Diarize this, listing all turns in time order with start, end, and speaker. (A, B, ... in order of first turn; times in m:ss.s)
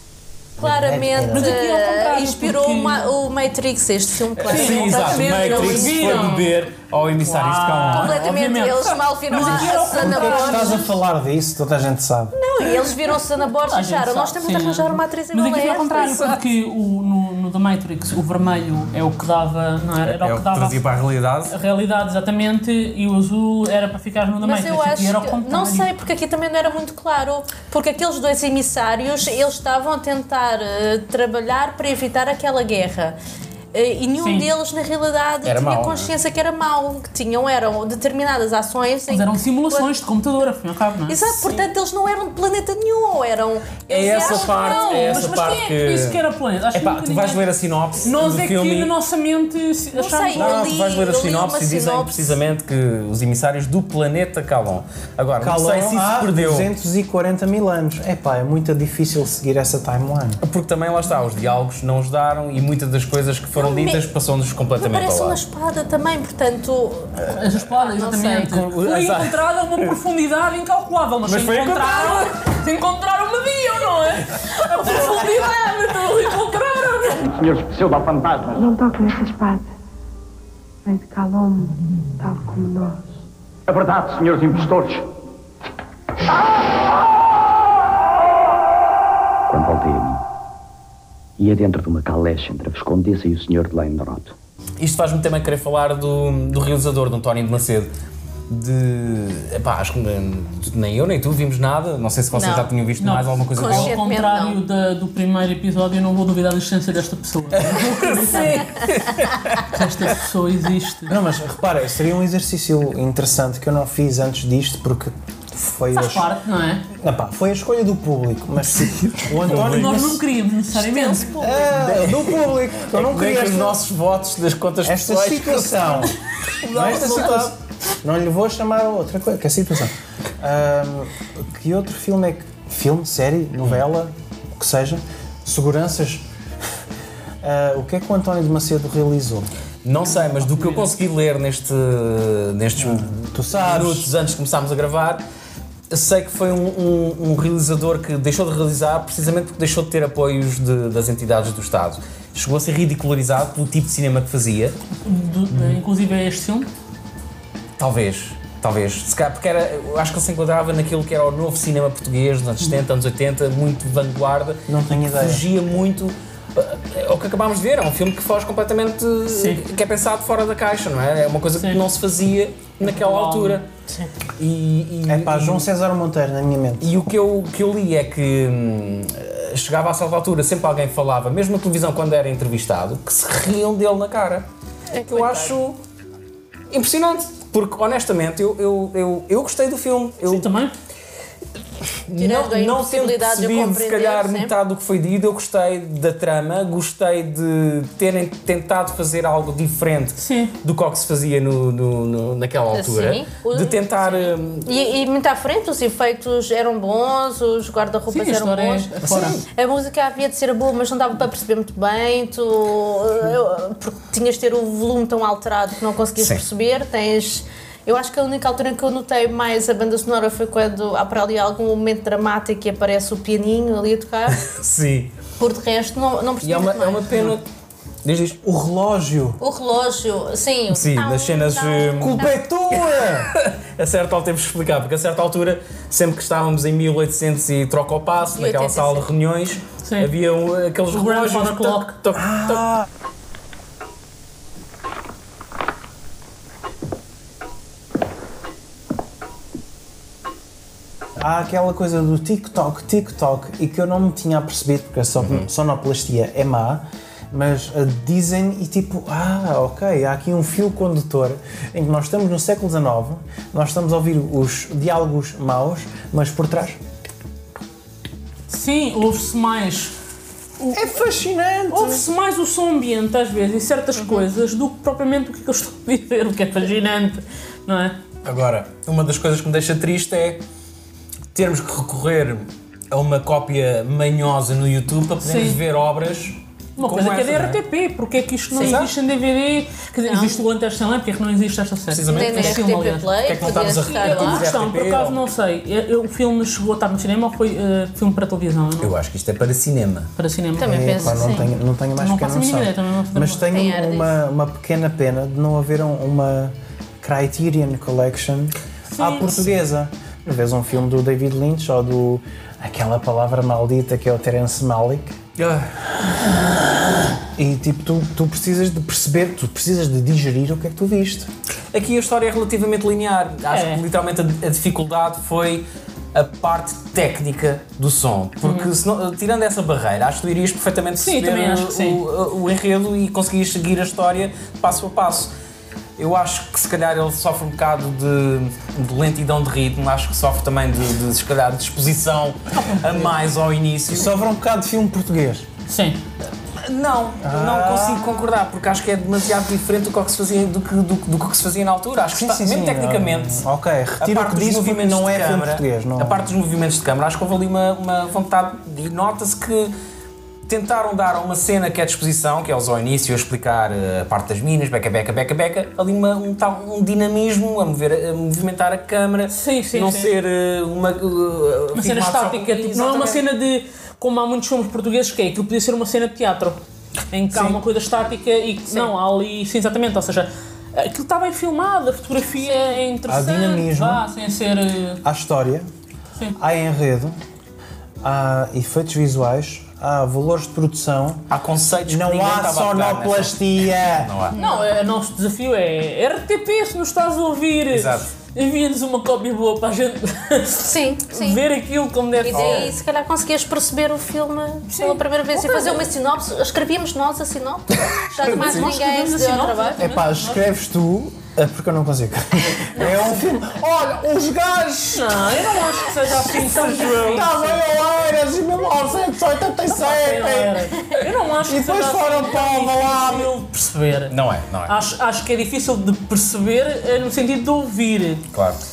0:00.6-0:06.6 A
0:00.6-0:01.5 B
0:01.3-0:03.1 C
0:04.4-0:08.2 D
0:04.4-0:06.6 C
0:07.2-0:10.9 C
0:07.9-0:10.8 A
0:09.5-0:12.4 B
0:12.3-0:16.3 A
0:13.6-0:20.8 C
0:20.0-0:21.5 D
0:21.5-0:25.9 C
0:24.4-0:33.2 A
0:33.7-0:40.0 A
0:34.2-0:34.5 C
0:35.4-0:36.1 D
0:39.1-0:41.6 C
0:41.1-0:45.3 A
0:43.9-0:46.2 D
0:44.0-0:47.4 C
0:46.7-0:48.9 D
0:48.0-0:50.6 C
0:49.9-0:52.4 A
0:50.4-0:56.7 D
0:50.4-0:50.6 B
0:55.4-1:00.4 B
1:00.4-1:05.4 D
1:03.5-1:04.1 A
1:04.8-1:08.5 A
1:07.3-1:17.4 C
1:08.4-1:09.9 D
1:11.2-1:12.3 D
1:17.3-1:18.6 E
1:18.5-1:19.6 F
1:20.8-1:23.0 F
1:23.7-1:25.0 E
1:29.5-1:30.2 G
1:31.4-1:34.3 G
1:34.8-1:37.9 D
1:38.5-1:44.0 D
1:42.3-1:42.7 A
1:43.0-1:48.9 C
1:43.5-1:44.6 A
1:47.6-1:49.7 D
1:49.6-1:51.1 C
1:51.1-1:56.3 B
1:55.9-1:56.8 C
1:57.0-2:00.2 B
1:58.7-2:00.1 D
1:59.4-2:01.6 C
2:00.7-2:01.8 A
2:01.4-2:03.8 B
2:01.7-2:06.1 D
2:04.8-2:06.1 B
2:06.6-2:07.5 C
2:06.6-2:07.5 D
2:06.7-2:16.2 B
2:17.4-2:19.5 B
2:19.8-2:25.2 D
2:20.6-2:20.8 C
2:22.8-2:24.1 B
2:25.9-2:34.8 D
2:35.0-2:36.7 C
2:35.5-2:35.8 D
2:37.8-2:53.7 D
2:44.7-2:45.4 B
2:49.3-2:49.8 C
2:51.6-2:51.8 C
2:52.8-2:53.6 C
2:54.4-2:55.7 D
2:55.1-2:56.9 B
2:56.8-3:04.5 D
3:04.9-3:05.6 A
3:05.0-3:05.8 D
3:06.7-3:10.5 D
3:10.2-3:10.7 C
3:12.1-3:24.7 D
3:12.2-3:14.5 A
3:20.2-3:20.5 C
3:22.7-3:44.4 A
3:28.1-3:29.4 C
3:29.0-3:29.4 D
3:36.2-3:36.4 D
3:44.3-3:45.1 D
3:45.4-3:47.4 A
3:46.4-3:47.4 D
3:48.0-3:48.4 D
3:48.4-3:49.4 B
3:49.4-3:52.3 A
3:50.7-3:52.3 D
3:52.0-3:53.3 B
3:52.9-4:02.8 D
3:58.3-3:59.1 A
3:59.8-4:00.1 C
4:00.9-4:01.9 C
4:02.2-4:02.8 B
4:11.2-4:26.8 B
4:28.5-4:29.9 C
4:30.6-4:31.0 C
4:30.7-4:32.0 B
4:31.7-4:38.0 C
4:38.2-4:40.4 D
4:41.3-4:47.6 D
4:45.2-4:45.6 C
4:46.8-4:58.9 C
4:48.5-4:48.9 D
4:50.0-4:50.4 A
4:51.9-4:52.7 D
4:52.1-4:54.4 A
4:53.2-4:55.2 D
4:58.8-5:00.1 D
5:00.2-5:03.7 C
5:00.6-5:01.5 A
5:00.6-5:15.1 B
5:03.5-5:04.1 A
5:08.9-5:09.5 C
5:15.4-5:15.6 D
5:17.4-5:21.3 B
5:21.7-5:35.3 D
5:23.5-5:23.8 C
5:28.4-5:28.7 C
5:31.0-5:32.0 C
5:36.0-5:44.2 D
5:42.5-5:43.1 C
5:43.9-5:45.4 B
5:45.7-5:46.0 C
5:46.6-5:53.5 D
5:47.2-5:48.3 B
5:52.1-5:56.3 B
5:54.0-5:59.7 D
6:00.5-6:13.2 D
6:09.3-6:10.1 C
6:11.7-6:16.6 C
6:17.1-6:25.0 C
6:17.3-6:17.6 D
6:22.4-6:22.7 A
6:23.1-6:24.0 B
6:25.0-6:25.7 B
6:26.4-6:27.2 B
6:28.0-6:31.2 B
6:31.3-6:34.4 D
6:31.8-6:34.1 B
6:34.3-6:34.7 A
6:34.3-6:42.7 C
6:37.7-6:38.1 D
6:40.6-6:41.4 A
6:42.2-6:49.8 A
6:42.3-6:42.8 D
6:44.7-6:45.9 C
6:48.2-6:50.5 C
6:48.2-6:48.7 D
6:49.8-6:55.4 B
6:52.8-6:53.1 A
6:52.8-6:53.1 C
6:54.9-6:57.6 C
6:56.4-7:00.7 B
6:56.9-6:57.2 D
6:59.7-7:04.2 C
7:01.4-7:03.3 B
7:04.1-7:04.7 D
7:04.7-7:08.2 C
7:08.3-7:08.6 D